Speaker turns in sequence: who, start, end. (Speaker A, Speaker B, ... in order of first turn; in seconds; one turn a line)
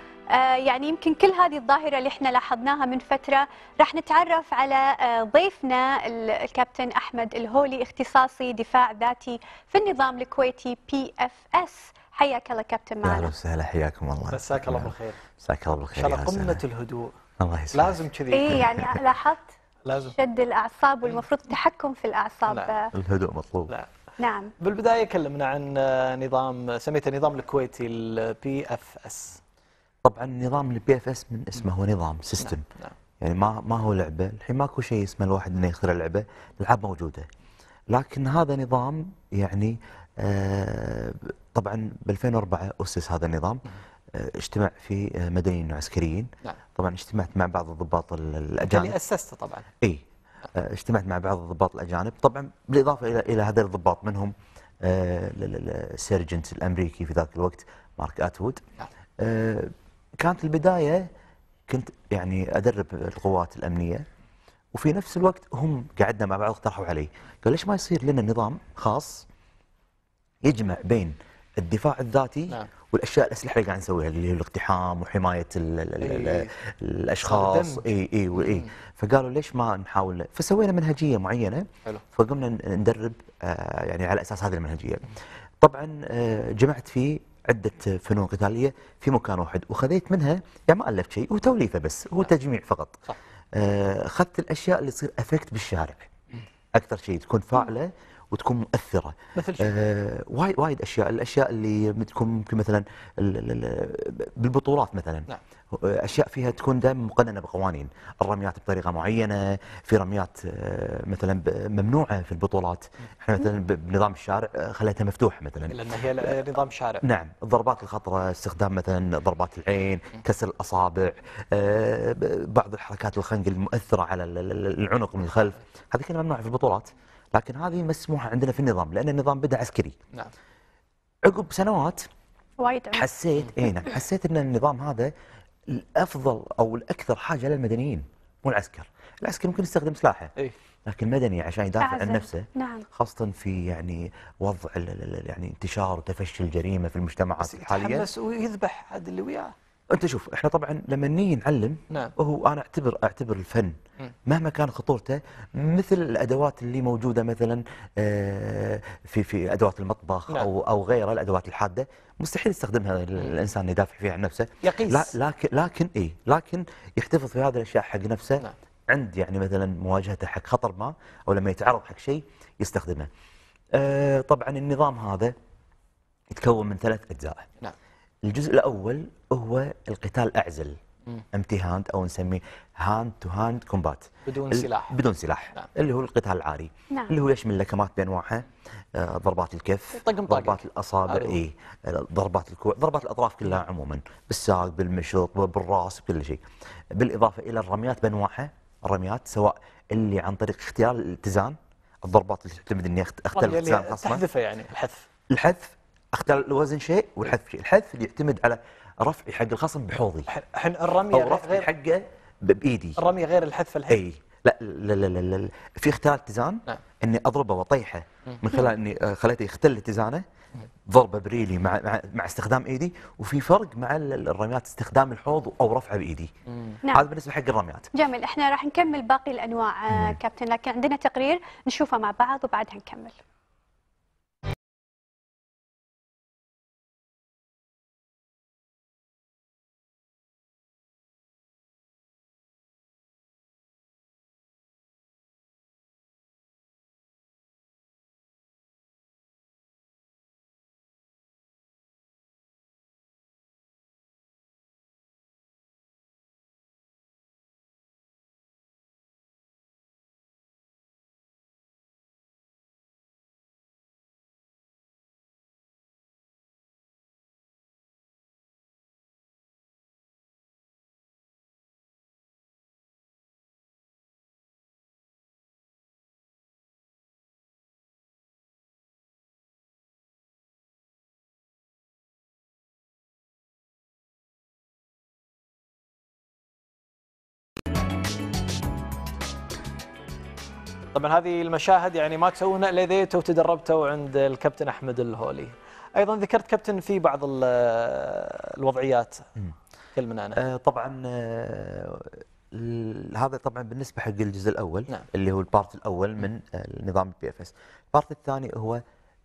Speaker A: 0.3-13.3
Speaker B: 13.0-16.6
Speaker C: 14.3-15.2
Speaker C: 15.9-17.1
Speaker B: 17.4-19.0
Speaker C: 17.7-18.7
Speaker A: 18.3-22.9
Speaker C: 19.8-20.1
Speaker C: 22.5-22.7
Speaker B: 22.9-23.7
Speaker A: 24.2-24.5
Speaker C: 24.6-29.4
Speaker B: 30.0-32.6
Speaker C: 32.4-32.9
Speaker B: 33.2-37.3
Speaker B: 37.9-49.0
Speaker C: 48.6-49.7
Speaker B: 49.8-58.6
Speaker B: 59.2-61.1
Speaker B: 61.7-64.0
Speaker B: 64.7-69.3
Speaker B: 70.4-96.1
Speaker C: 76.0-76.5
Speaker C: 77.2-78.7
Speaker B: 96.7-116.4
Speaker C: 99.3-99.8
Speaker C: 115.7-117.0
Speaker B: 117.0-129.9
Speaker B: 131.2-132.0
Speaker A: 132.6-133.1
Speaker B: 132.9-135.1
Speaker B: 135.7-140.3
Speaker B: 140.9-148.1
Speaker A: 141.8-142.8
Speaker C: 147.4-149.5
Speaker B: 149.9-173.1
Speaker C: 164.6-165.2
Speaker B: 173.7-175.3
Speaker B: 176.3-177.5
Speaker B: 178.2-180.8
Speaker B: 181.3-196.4
Speaker C: 184.2-185.0
Speaker C: 190.0-191.4
Speaker B: 196.9-204.2
Speaker C: 203.3-205.1
Speaker B: 205.3-210.3
Speaker C: 210.3-211.7
Speaker B: 211.1-213.0
Speaker C: 213.0-214.0
Speaker B: 213.9-220.2
Speaker B: 220.9-226.3
Speaker C: 226.5-226.8
Speaker B: 226.9-227.9
Speaker A: 227.9-233.2
Speaker B: 229.9-230.2
Speaker C: 290.9-299.3
Speaker C: 299.9-300.4
Speaker B: 300.3-308.8